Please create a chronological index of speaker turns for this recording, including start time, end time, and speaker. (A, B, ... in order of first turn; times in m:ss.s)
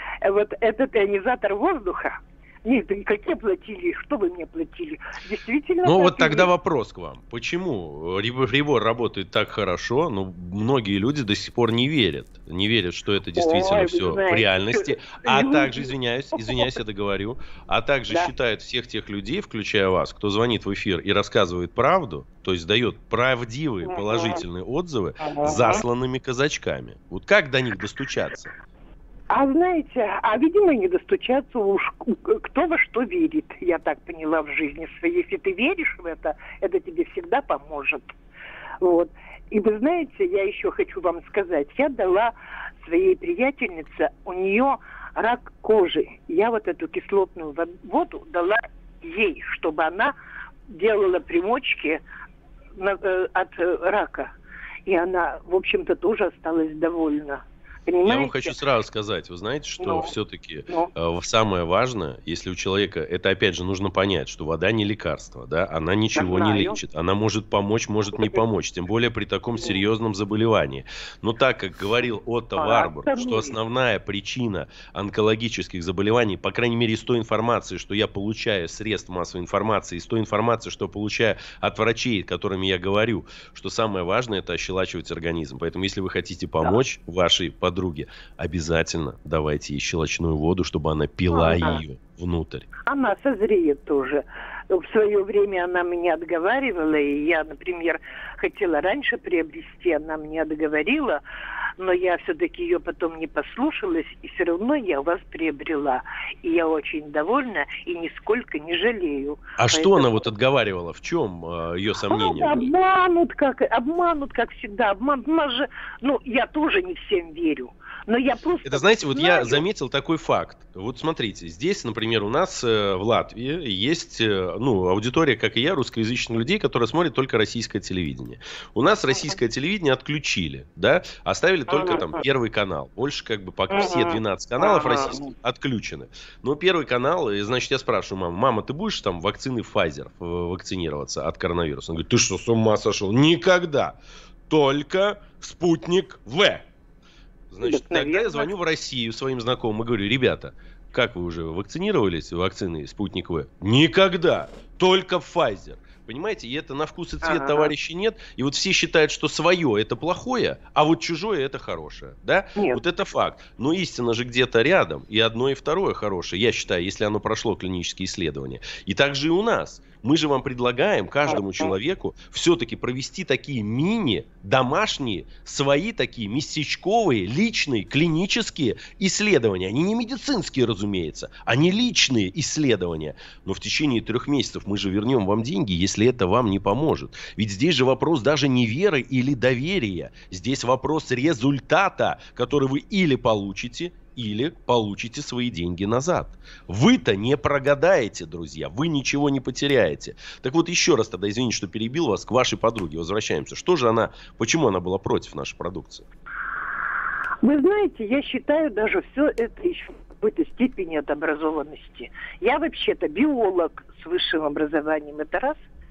0:00.2-0:06.5 A
0:05.8-0:28.5 B
0:13.4-0:16.7 A
0:23.9-0:24.4 A
0:25.2-0:25.8 A
0:29.3-0:38.1 A
0:38.8-0:50.1 A
0:50.7-0:52.0 A
0:52.8-0:54.3 A
0:54.9-0:58.6 A
0:58.0-1:32.7 B
0:59.8-1:00.1 A
1:06.2-1:06.8 A
1:12.6-1:13.6 A
1:31.3-1:31.8 A
1:32.9-1:41.2 A
1:41.8-1:50.2 A
1:49.6-1:52.7 B
1:52.1-1:59.6 A
1:58.6-2:24.0 B
2:11.7-2:12.2 A
2:13.7-2:15.3 A
2:24.5-2:26.7 B
2:27.5-3:26.1 B
2:27.6-2:28.5 A
2:37.2-2:37.7 A
2:42.6-2:42.8 A
2:51.3-2:51.7 A
3:27.4-3:35.6 A